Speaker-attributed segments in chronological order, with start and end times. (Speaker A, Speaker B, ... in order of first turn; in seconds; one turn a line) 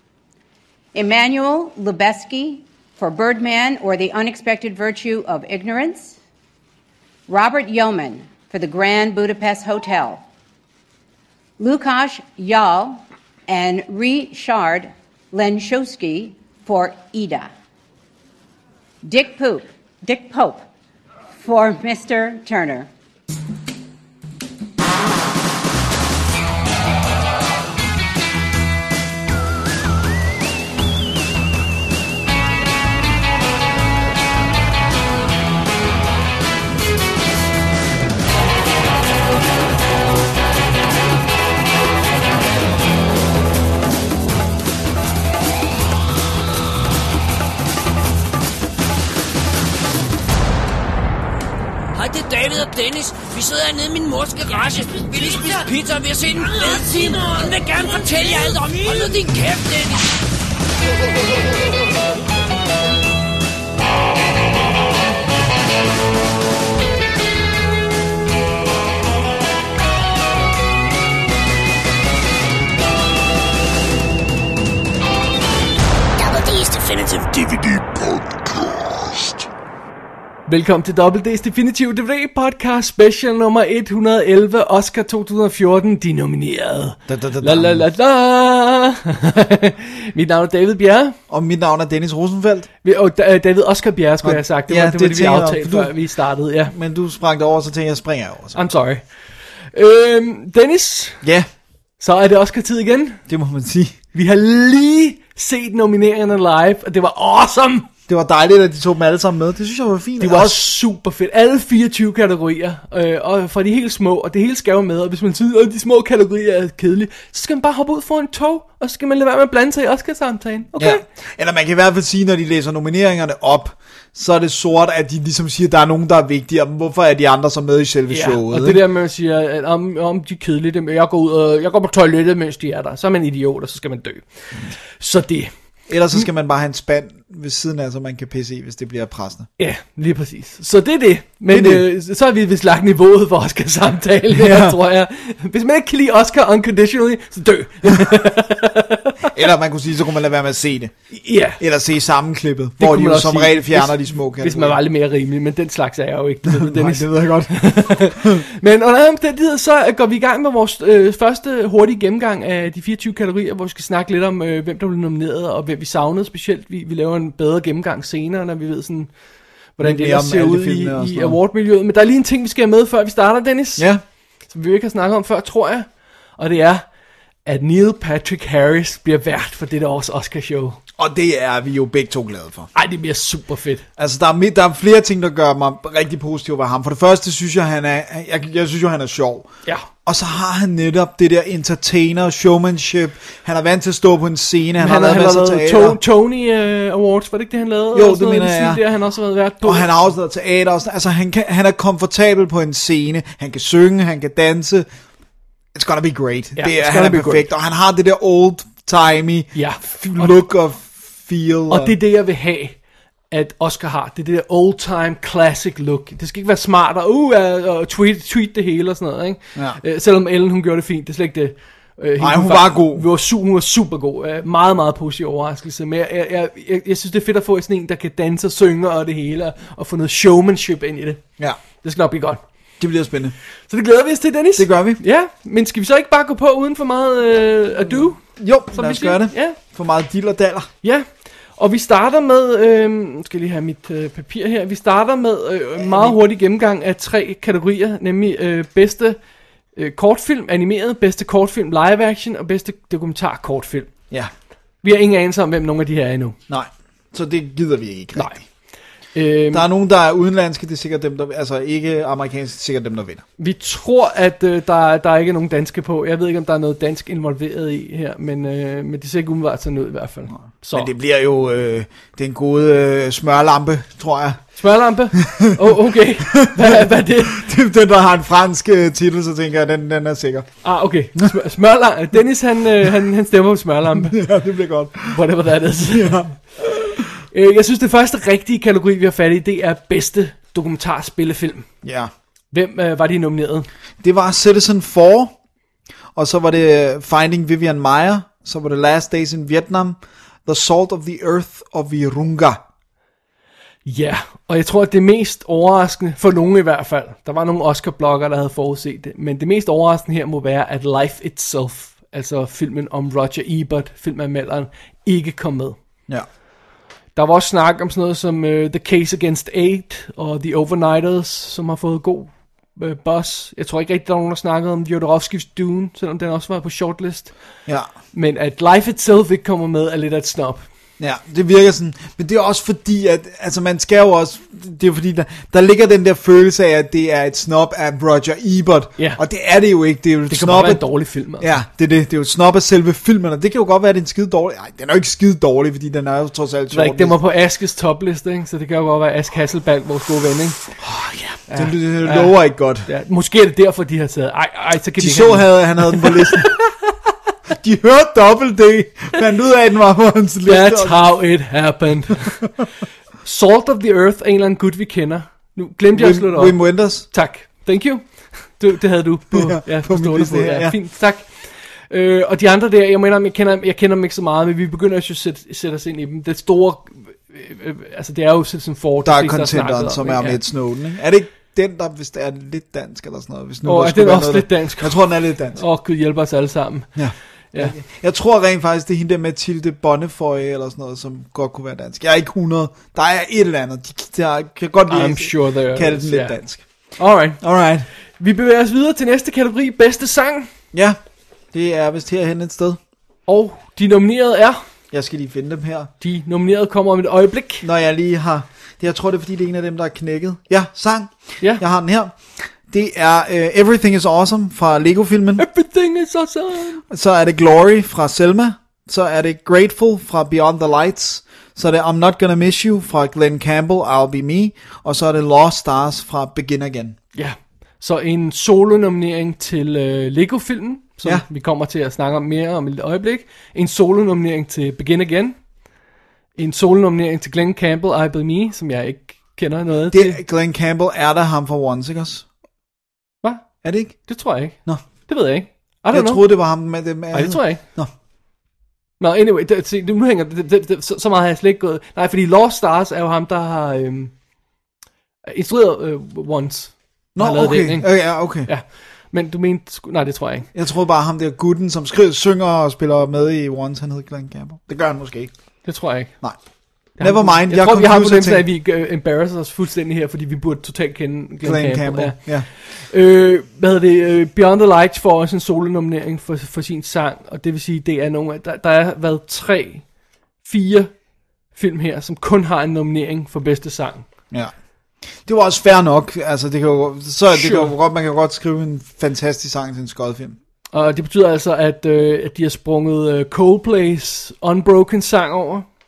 Speaker A: 0.9-6.2
Speaker A: 7.3-10.2
Speaker A: 11.6-17.5
Speaker A: 19.0-20.7
Speaker A: 21.3-22.9
Speaker B: 51.9-60.0
Speaker C: 76.2-79.5
Speaker D: 80.5-91.2
Speaker E: 87.1-87.8
Speaker E: 91.3-92.7
Speaker D: 92.8-96.7
Speaker E: 94.2-95.9
Speaker E: 96.7-98.6
Speaker D: 98.5-99.0
Speaker D: 99.7-101.2
Speaker E: 101.2-101.5
Speaker D: 102.0-103.2
Speaker E: 103.3-104.0
Speaker D: 104.1-107.9
Speaker E: 108.1-110.6
Speaker D: 110.2-121.0
Speaker E: 120.8-128.8
Speaker D: 128.1-134.2
Speaker D: 135.0-135.5
Speaker E: 135.9-139.5
Speaker D: 139.6-149.3
Speaker E: 141.5-141.8
Speaker E: 144.3-144.8
Speaker E: 149.3-150.9
Speaker D: 151.1-151.6
Speaker E: 151.6-154.8
Speaker D: 152.8-169.1
Speaker E: 156.4-158.4
Speaker D: 169.8-173.9
Speaker E: 169.8-171.4
Speaker E: 173.8-174.0
Speaker D: 174.5-176.8
Speaker D: 177.4-180.8
Speaker E: 181.0-182.7
Speaker D: 182.7-183.8
Speaker E: 184.0-189.5
Speaker E: 190.1-196.0
Speaker D: 194.8-199.9
Speaker E: 197.9-198.8
Speaker E: 199.6-204.9
Speaker E: 205.7-211.9
Speaker D: 206.6-207.5
Speaker D: 209.5-210.3
Speaker D: 211.7-212.8
Speaker D: 213.3-231.2
Speaker E: 222.2-223.0
Speaker D: 231.8-232.4
Speaker E: 232.8-233.3
Speaker D: 233.7-238.2
Speaker E: 234.6-235.0
Speaker E: 238.4-240.7
Speaker D: 238.7-239.6
Speaker D: 241.6-249.2
Speaker E: 245.8-246.2
Speaker D: 249.8-253.9
Speaker D: 254.8-256.4
Speaker E: 256.5-258.4
Speaker D: 259.1-259.6
Speaker E: 259.5-263.2
Speaker D: 263.4-270.9
Speaker E: 270.7-274.4
Speaker D: 274.6-277.4
Speaker E: 275.2-275.6
Speaker E: 276.3-280.5
Speaker D: 280.6-284.2
Speaker E: 284.1-285.2
Speaker D: 285.1-286.3
Speaker E: 285.9-287.0
Speaker D: 287.2-291.7
Speaker E: 291.8-292.1
Speaker D: 292.5-293.7
Speaker E: 294.0-295.3
Speaker E: 296.1-302.6
Speaker D: 303.8-315.8
Speaker D: 317.1-327.3
Speaker D: 328.1-330.6
Speaker E: 331.0-340.8
Speaker D: 340.3-341.5
Speaker E: 341.4-347.2
Speaker D: 346.7-350.8
Speaker D: 351.3-352.3
Speaker E: 351.5-352.9
Speaker D: 352.9-356.6
Speaker E: 355.0-356.5
Speaker E: 357.5-361.1
Speaker D: 360.4-362.5
Speaker D: 363.2-366.6
Speaker E: 365.9-367.1
Speaker D: 367.1-380.4
Speaker E: 369.3-370.7
Speaker E: 379.0-385.6
Speaker D: 383.6-387.7
Speaker E: 386.9-396.6
Speaker D: 394.9-396.4
Speaker D: 397.0-397.4
Speaker E: 397.4-397.9
Speaker D: 398.2-400.5
Speaker E: 400.7-401.0
Speaker E: 401.5-402.8
Speaker D: 403.3-404.6
Speaker E: 404.9-405.9
Speaker D: 406.0-407.7
Speaker E: 407.6-415.4
Speaker D: 415.4-416.8
Speaker E: 416.9-427.0
Speaker D: 427.1-435.4
Speaker D: 436.4-440.2
Speaker E: 439.9-442.2
Speaker E: 443.6-443.9
Speaker D: 444.1-446.2
Speaker E: 445.9-447.9
Speaker D: 447.1-447.6
Speaker D: 449.0-454.1
Speaker D: 455.3-460.5
Speaker E: 457.1-458.5
Speaker E: 460.5-465.3
Speaker D: 465.6-466.1
Speaker D: 467.0-479.8
Speaker E: 467.0-468.4
Speaker E: 471.4-472.4
Speaker D: 480.4-480.9
Speaker D: 481.5-484.1
Speaker E: 485.2-490.4
Speaker D: 487.3-487.7
Speaker D: 490.7-495.6